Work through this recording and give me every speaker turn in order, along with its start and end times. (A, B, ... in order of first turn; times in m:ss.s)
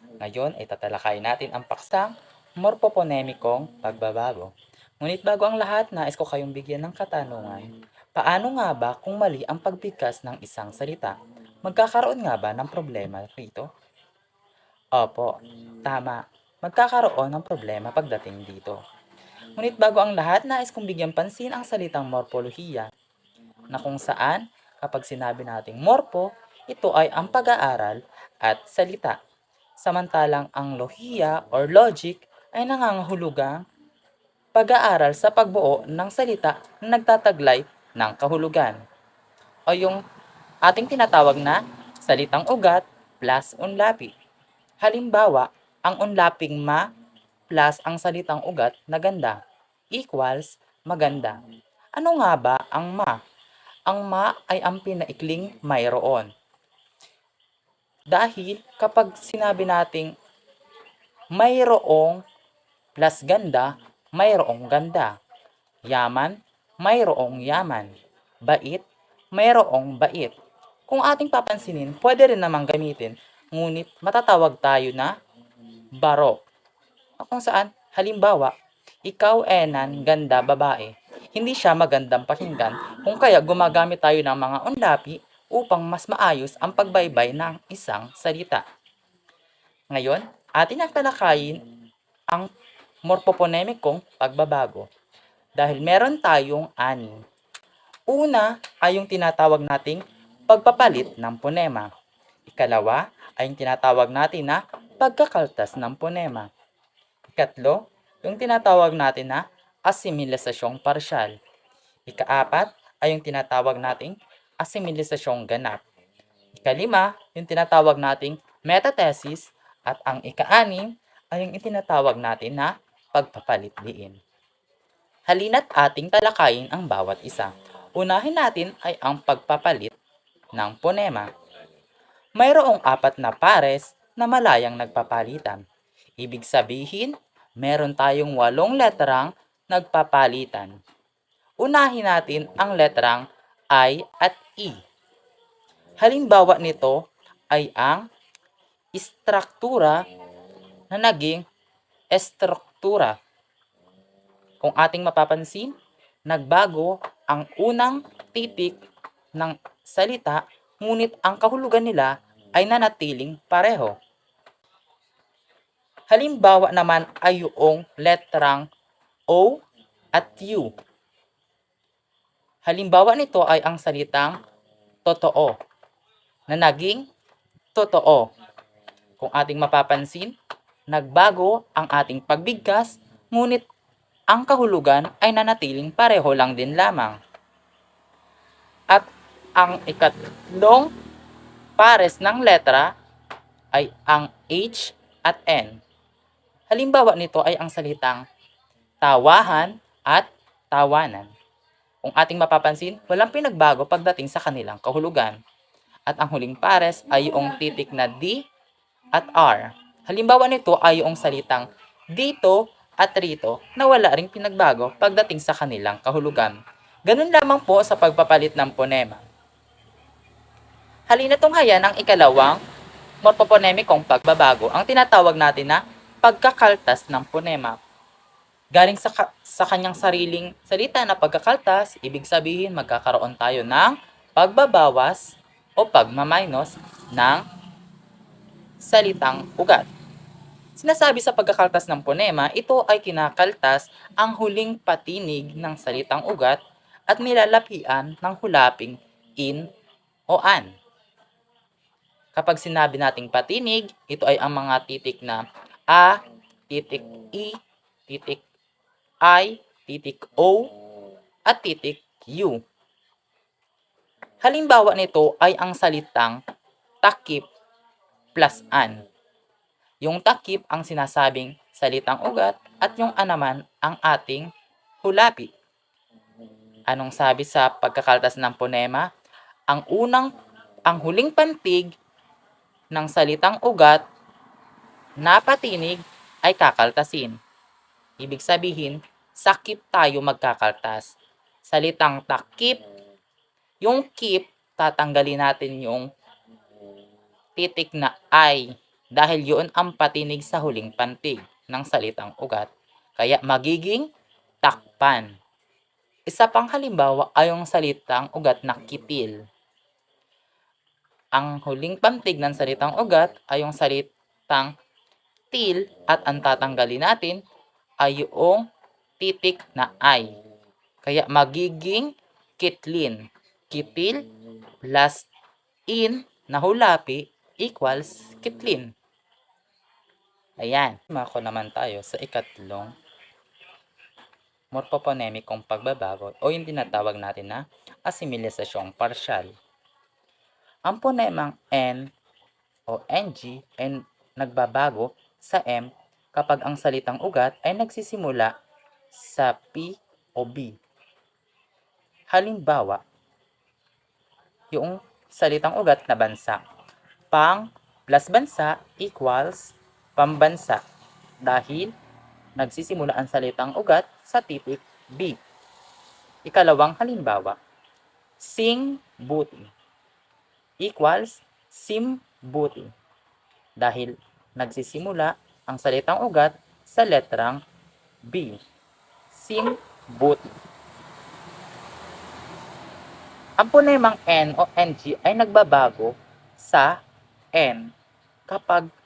0:00.2-0:13.6 A
0:15.0-0:15.3 A
0:15.8-0:18.8 A
0:19.6-0:22.9 A
0:23.7-0:29.2 A
0:29.8-0:33.6 A
0:34.5-0:38.8 A
0:39.7-0:40.0 A
0:40.6-0:44.1 A
0:44.8-0:46.8 A
0:47.5-0:49.4 A
0:49.9-0:51.4 A
0:52.0-0:53.2 A
0:53.9-0:56.3 A
0:58.1-1:00.1 A
1:01.3-1:02.2 A
1:03.0-1:05.1 A
1:05.9-1:07.9 A
1:08.5-1:08.8 A
1:09.3-1:10.3 A
1:10.9-1:15.1 A
1:16.0-1:16.4 A
1:17.2-1:18.5 A
1:19.0-1:28.6 A
1:29.9-1:31.6 A
1:33.0-1:34.8 A
1:35.6-1:37.2 A
1:38.1-1:41.9 A
1:42.5-1:46.5 A
1:47.4-1:51.3 A
1:52.1-1:55.8 A
1:56.6-2:04.2 A
2:05.3-2:09.9 A
2:10.6-2:11.3 A
2:12.4-2:15.6 A
2:16.2-2:20.7 A
2:21.6-2:23.2 A
2:23.7-2:24.8 A
2:26.0-2:27.0 A
2:27.5-2:28.0 A
2:29.0-2:30.0 A
2:30.9-2:31.4 A
2:32.1-2:33.2 A
2:34.6-2:35.7 A
2:36.3-2:38.8 A
2:39.4-2:44.0 A
2:46.1-2:48.6 A
2:49.3-2:49.6 A
2:50.1-2:50.7 A
2:52.6-2:54.3 A
2:55.0-2:55.6 A
2:56.5-2:57.0 A
2:57.7-2:58.3 A
2:59.2-3:00.3 A
3:00.9-3:03.6 A
3:04.3-3:07.2 A
3:08.9-3:10.9 A
3:11.8-3:12.9 A
3:13.7-3:15.8 A
3:16.7-3:18.2 A
3:19.0-3:21.3 A
3:22.0-3:25.4 A
3:26.1-3:28.4 A
3:29.1-3:39.2 A
3:41.1-3:42.6 A
3:43.2-3:47.8 A
3:48.7-3:57.4 A
3:58.8-3:59.9 A
4:00.8-4:09.7 A
4:10.3-4:10.7 A
4:12.4-4:17.6 A
4:18.1-4:18.4 A
4:19.2-4:20.7 A
4:21.5-4:22.6 A
4:24.4-4:26.4 A
4:27.0-4:27.4 A
4:28.4-4:29.0 A
4:30.0-4:34.5 A
4:35.0-4:35.5 A
4:36.9-4:39.1 A
4:39.7-4:40.3 A
4:40.9-4:41.9 A
4:42.9-4:44.0 A
4:45.2-4:47.4 A
4:48.2-4:51.1 A
4:51.6-4:52.8 A
4:53.8-4:56.1 A
4:57.6-5:04.0 A
5:04.6-5:05.3 A
5:06.3-5:09.3 A
5:11.3-5:14.7 A
5:15.5-5:17.4 A
5:18.0-5:18.6 A
5:19.2-5:20.4 A
5:21.0-5:23.2 A
5:23.7-5:24.2 A
5:24.8-5:25.3 A
5:25.9-5:28.9 A
5:30.6-5:32.9 A
5:34.7-5:39.5 A
5:40.9-5:42.1 A
5:42.9-5:48.5 A
5:49.1-5:50.8 A
5:52.3-5:53.0 A
5:54.7-5:56.6 A
5:57.3-6:00.8 A
6:01.4-6:01.9 A
6:02.6-6:05.4 A
6:06.4-6:07.6 A
6:08.4-6:09.7 A
6:10.8-6:12.9 A
6:13.8-6:17.6 A
6:18.3-6:18.6 A
6:19.3-6:20.4 A
6:23.6-6:27.0 A
6:27.5-6:27.9 A
6:28.5-6:28.9 A